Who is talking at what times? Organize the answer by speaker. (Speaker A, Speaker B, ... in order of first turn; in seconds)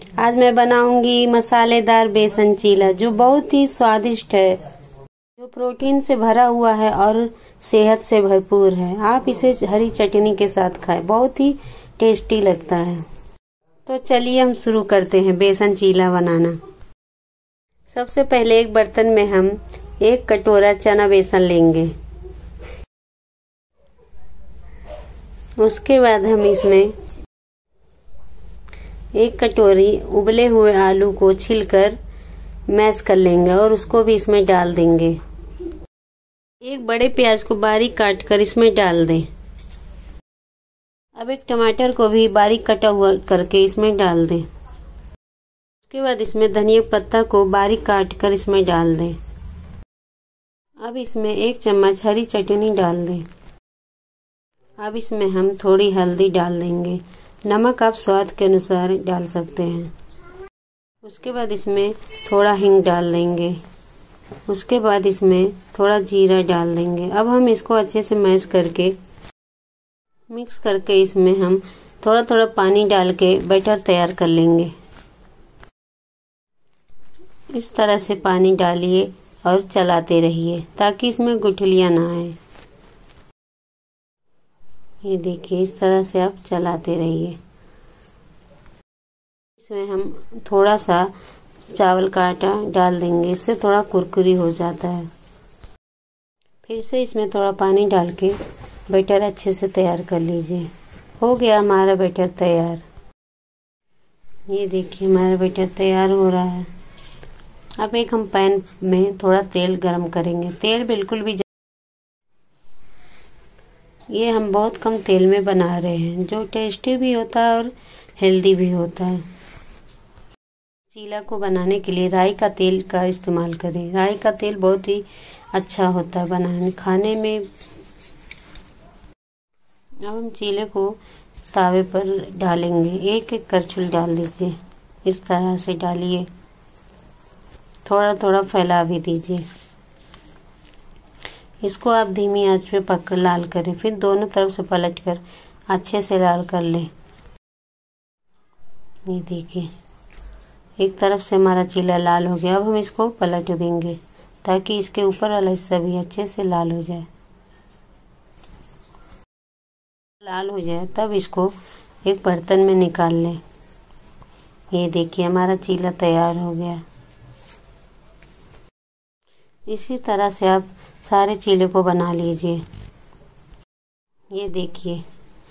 Speaker A: 0.2-4.6, 5.4-13.0, 13.8-16.6, 17.9-21.9, 25.6-26.9, 29.1-32.0, 32.7-35.2, 36.6-39.3, 41.1-44.5, 45.8-49.2, 50.8-53.2, 54.8-59.9, 61.0-63.6, 64.5-69.0, 70.3-74.7, 77.5-82.3, 85.0-87.4, 89.6-91.1, 91.7-95.1, 96.6-98.4, 98.9-102.8, 104.5-106.7, 107.8-111.5, 114.1-119.2, 120.9-127.5, 130.0-131.0, 131.5-136.3, 137.8-139.4, 141.6-146.9, 149.1-149.7, 150.8-157.1, 160.2-163.4, 164.7-166.8, 169.7-172.6, 174.3-175.0